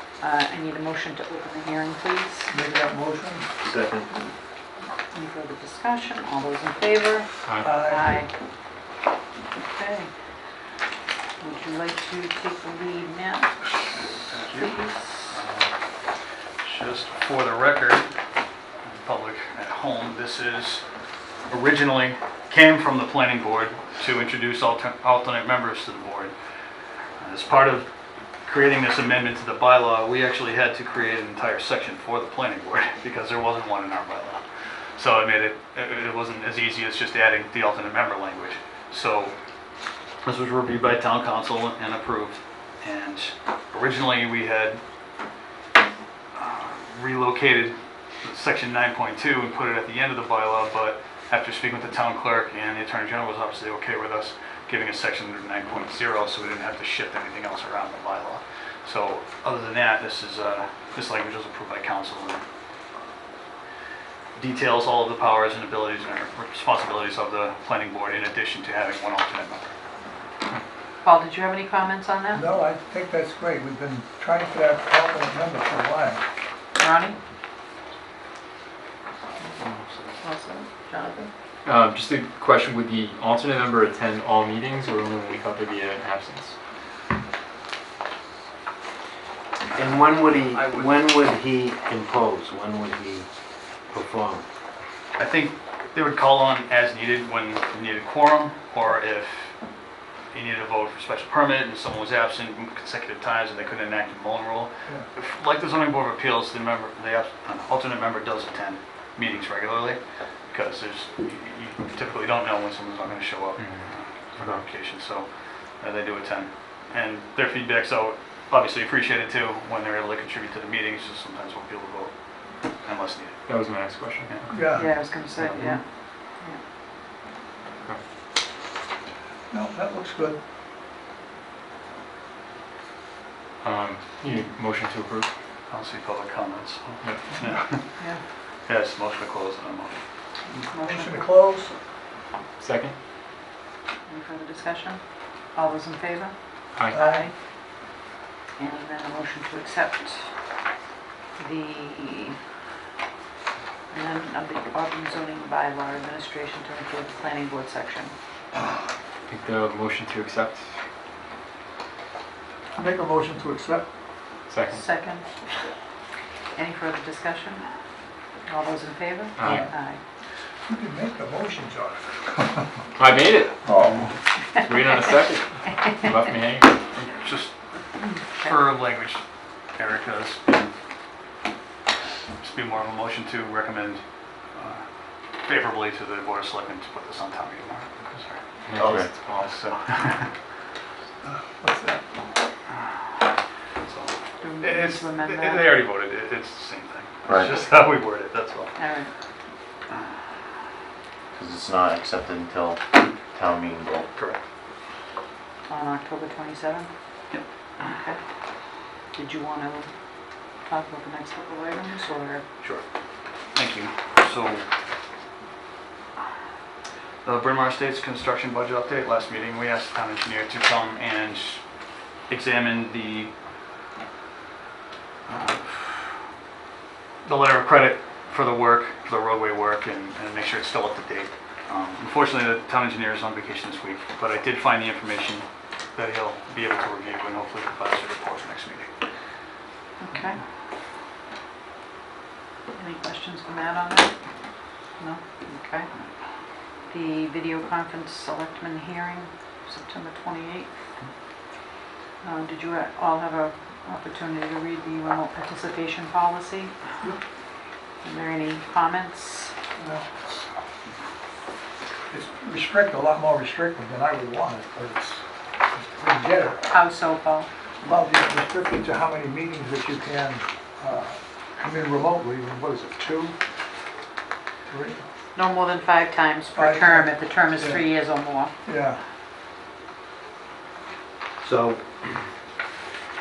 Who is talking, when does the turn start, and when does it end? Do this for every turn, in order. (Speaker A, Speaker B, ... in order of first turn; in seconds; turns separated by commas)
Speaker A: 0.2-2.5, Speaker B: 2.5-3.5, Speaker C: 3.6-4.1, Speaker A: 5.1-8.3, Speaker B: 7.6-8.2, Speaker A: 9.6-10.1, Speaker A: 11.4-13.6, Speaker D: 14.3-15.7, Speaker A: 14.5-15.3, Speaker D: 16.6-18.1, Speaker D: 18.8-20.9, Speaker D: 21.5-26.3, Speaker D: 27.2-27.9, Speaker D: 28.4-34.4, Speaker D: 35.0-39.3, Speaker D: 40.2-44.8, Speaker D: 46.3-62.4, Speaker D: 64.3-69.7, Speaker A: 71.0-72.5, Speaker B: 72.3-76.2, Speaker A: 76.8-77.2, Speaker D: 79.5-80.1, Speaker A: 80.2-81.3, Speaker E: 81.6-86.5, Speaker D: 89.7-91.1, Speaker C: 89.7-93.3, Speaker C: 93.9-94.5, Speaker D: 95.2-99.5, Speaker D: 100.3-123.6, Speaker E: 123.5-125.8, Speaker B: 124.5-125.0, Speaker A: 124.7-126.6, Speaker B: 129.5-130.4, Speaker E: 133.6-135.3, Speaker D: 135.7-137.9, Speaker E: 137.0-137.3, Speaker D: 138.7-140.0, Speaker A: 140.7-141.3, Speaker B: 140.8-141.7, Speaker E: 142.6-142.9, Speaker A: 144.1-145.0, Speaker A: 145.5-147.3, Speaker B: 146.9-147.3, Speaker A: 148.6-150.3, Speaker A: 151.4-152.4, Speaker A: 153.9-158.1, Speaker E: 159.3-160.6, Speaker B: 162.8-163.8, Speaker E: 164.5-164.8, Speaker A: 164.7-165.3, Speaker A: 166.5-167.6, Speaker A: 168.4-170.0, Speaker E: 169.4-169.7, Speaker B: 170.7-172.7, Speaker E: 172.9-174.0, Speaker B: 173.7-174.2, Speaker E: 174.5-176.7, Speaker D: 176.9-177.5, Speaker D: 178.3-180.7, Speaker D: 182.4-190.3, Speaker E: 188.7-189.5, Speaker B: 191.2-192.1, Speaker D: 193.8-198.7, Speaker A: 194.4-195.7, Speaker A: 198.8-199.1, Speaker F: 201.3-204.1, Speaker D: 204.1-204.4, Speaker A: 205.7-206.9, Speaker A: 207.8-208.2, Speaker A: 209.1-209.9, Speaker A: 210.6-212.4, Speaker D: 212.6-212.8, Speaker D: 213.5-214.7, Speaker D: 217.2-221.6, Speaker D: 222.3-223.3, Speaker D: 225.3-226.1, Speaker D: 227.2-238.9, Speaker A: 240.0-240.4, Speaker A: 242.7-244.1, Speaker A: 245.0-245.9, Speaker A: 246.9-250.8, Speaker A: 252.2-256.7, Speaker A: 258.0-259.5, Speaker B: 259.8-260.4, Speaker B: 262.1-266.6, Speaker A: 266.7-267.5, Speaker B: 267.8-273.3, Speaker B: 274.7-275.0, Speaker A: 275.3-278.5, Speaker B: 276.6-277.9, Speaker B: 278.6-279.0, Speaker C: 281.4-282.3